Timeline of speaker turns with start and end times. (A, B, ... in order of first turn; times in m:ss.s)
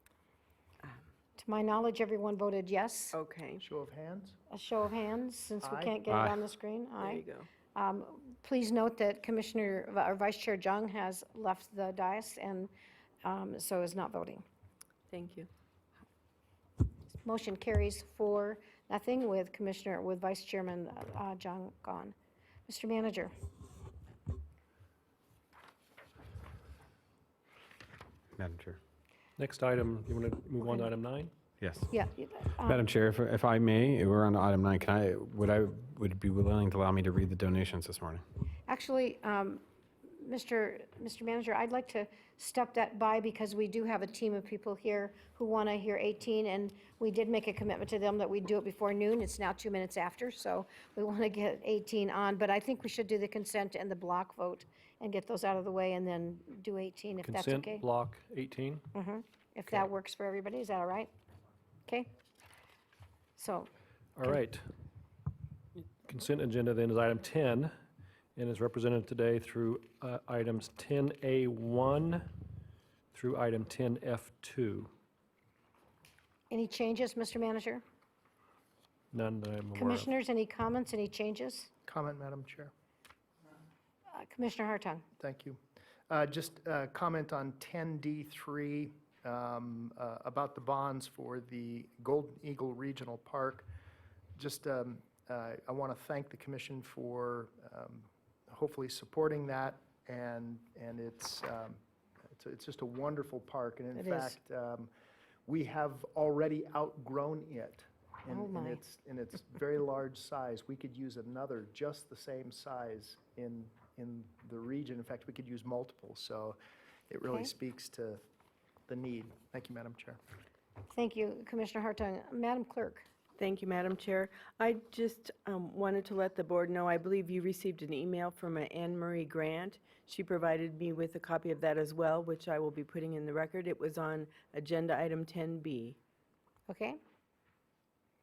0:01.4-0:03.2 A
0:03.1-0:03.6 B
0:03.6-0:04.4 C
0:04.5-0:07.2 A
0:05.6-0:06.0 C
0:06.1-0:06.4 D
0:07.0-0:07.5 B
0:07.8-0:12.7 A
0:13.2-0:14.4 A
0:15.1-0:15.5 B
0:17.2-0:22.2 A
0:22.7-0:23.3 A
0:28.4-0:28.8 D
0:29.4-0:31.3 E
0:31.6-0:31.9 D
0:31.9-0:32.9 A
0:32.6-0:38.2 D
0:38.7-0:57.9 A
0:57.2-0:58.9 E
0:58.9-1:01.1 A
1:03.4-1:03.7 A
1:04.2-1:04.6 E
1:06.0-1:07.7 E
1:08.4-1:12.3 E
1:13.1-1:14.9 E
1:16.5-1:17.8 A
1:19.1-1:20.1 E
1:19.8-1:21.7 A
1:21.8-1:22.7 C
1:24.1-1:25.1 A
1:25.2-1:33.7 C
1:34.4-1:41.8 C
1:42.4-1:44.9 C
1:44.0-1:44.4 A
1:45.5-1:58.2 C
1:48.3-1:48.8 A
1:58.9-2:00.2 C
2:00.9-2:03.1 A
2:03.4-2:16.0 B
2:16.7-2:17.0 A